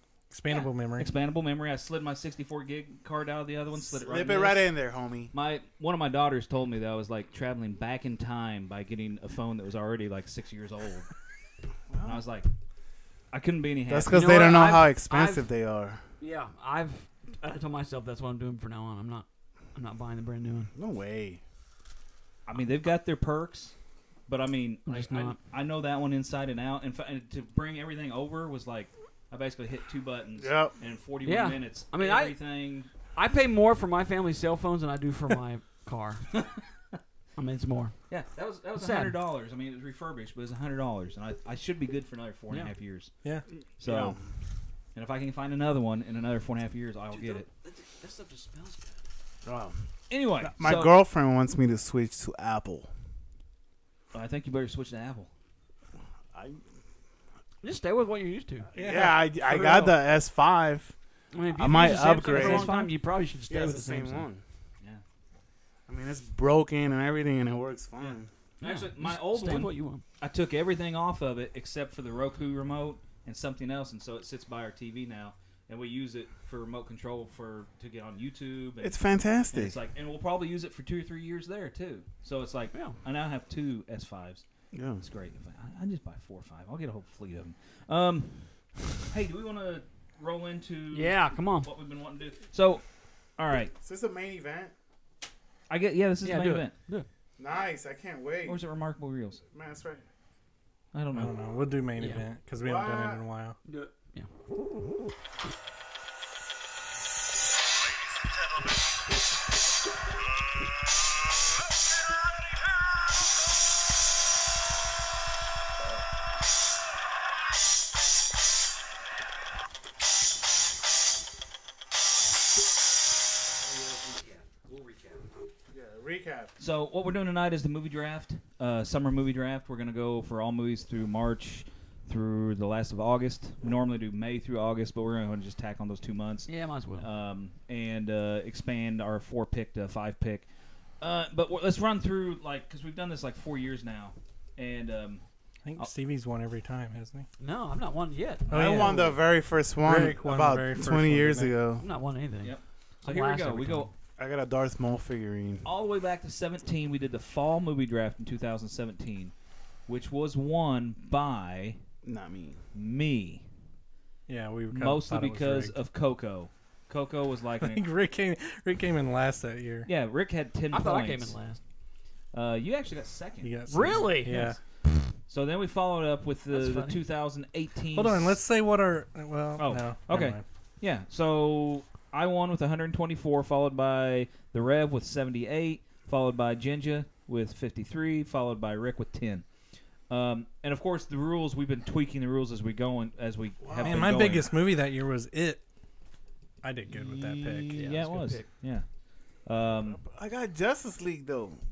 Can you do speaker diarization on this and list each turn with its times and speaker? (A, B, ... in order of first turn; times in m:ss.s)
0:00.3-0:01.1 A
0:01.0-0:04.7 B
0:03.8-0:05.3 C
0:05.3-0:11.1 B
0:11.9-0:12.2 C
0:12.0-0:12.5 B
0:13.3-0:14.3 B
0:13.9-0:16.0 C
0:14.1-0:15.4 D
0:16.2-0:20.7 D
0:20.7-0:21.4 C
0:22.4-0:23.7 B
0:24.3-0:32.9 B
0:24.9-0:25.4 D
0:30.4-0:30.7 C
0:31.2-0:32.4 D
0:33.1-0:36.2 D
0:37.4-0:37.9 D
0:38.1-0:43.1 B
0:38.8-0:39.2 D
0:43.8-0:44.2 B
0:43.8-0:44.2 C
0:44.9-0:47.4 B
0:47.1-0:49.0 D
0:49.4-0:49.8 C
0:50.1-0:50.9 B
0:50.4-0:52.9 C
0:54.1-0:55.3 B
0:56.3-0:56.6 C
0:57.6-0:58.7 D
0:58.7-1:00.9 C
0:58.7-1:00.0 A
1:01.3-1:04.2 D
1:01.5-1:02.7 C
1:01.9-1:02.9 B
1:03.5-1:04.4 C
1:05.9-1:08.3 C
1:08.0-1:19.0 B
1:08.6-1:10.0 D
1:18.8-1:19.7 C
1:19.5-1:24.4 B
1:22.7-1:23.0 D
1:24.7-1:25.0 C
1:25.0-1:28.4 B
1:29.0-1:32.8 B
1:30.9-1:31.7 D
1:33.4-1:33.7 B
1:33.8-1:34.7 C
1:35.7-1:36.7 B
1:36.2-1:37.0 D
1:37.4-1:38.6 C
1:38.4-1:39.4 B
1:39.5-1:40.0 C
1:40.9-1:41.3 B
1:41.1-1:43.6 A
1:42.0-1:42.2 D
1:42.6-1:43.2 C
1:43.6-1:44.3 D
2:03.6-2:05.3 B
2:05.7-2:06.5 C
2:06.6-2:20.4 B
2:16.5-2:17.1 D
2:21.0-2:25.2 B
2:25.6-2:27.3 A
2:27.4-2:29.1 D
2:28.5-2:29.1 A
2:28.5-2:31.8 C
2:29.8-2:31.5 A
2:31.8-2:33.9 D
2:32.4-2:33.9 B
2:34.2-2:35.7 C
2:35.6-2:39.3 B
2:39.9-2:41.8 B
2:42.0-2:42.6 C
2:42.7-2:43.4 B
2:44.3-2:45.8 A
2:44.7-2:47.8 B
2:47.6-2:49.9 A
2:49.8-2:51.3 B
2:50.7-2:51.6 D
2:52.3-2:53.6 B
2:53.4-2:54.6 A
2:53.7-2:54.5 D
2:55.3-2:58.4 B
2:56.5-2:57.0 D
2:57.9-3:00.4 A
2:59.6-3:09.4 B
3:10.1-3:14.5 B
3:13.6-3:14.5 C
3:13.8-3:15.6 A
3:16.6-3:17.7 A
3:16.9-3:18.8 B
3:17.7-3:18.4 D
3:19.4-3:20.0 B
3:19.7-3:21.6 C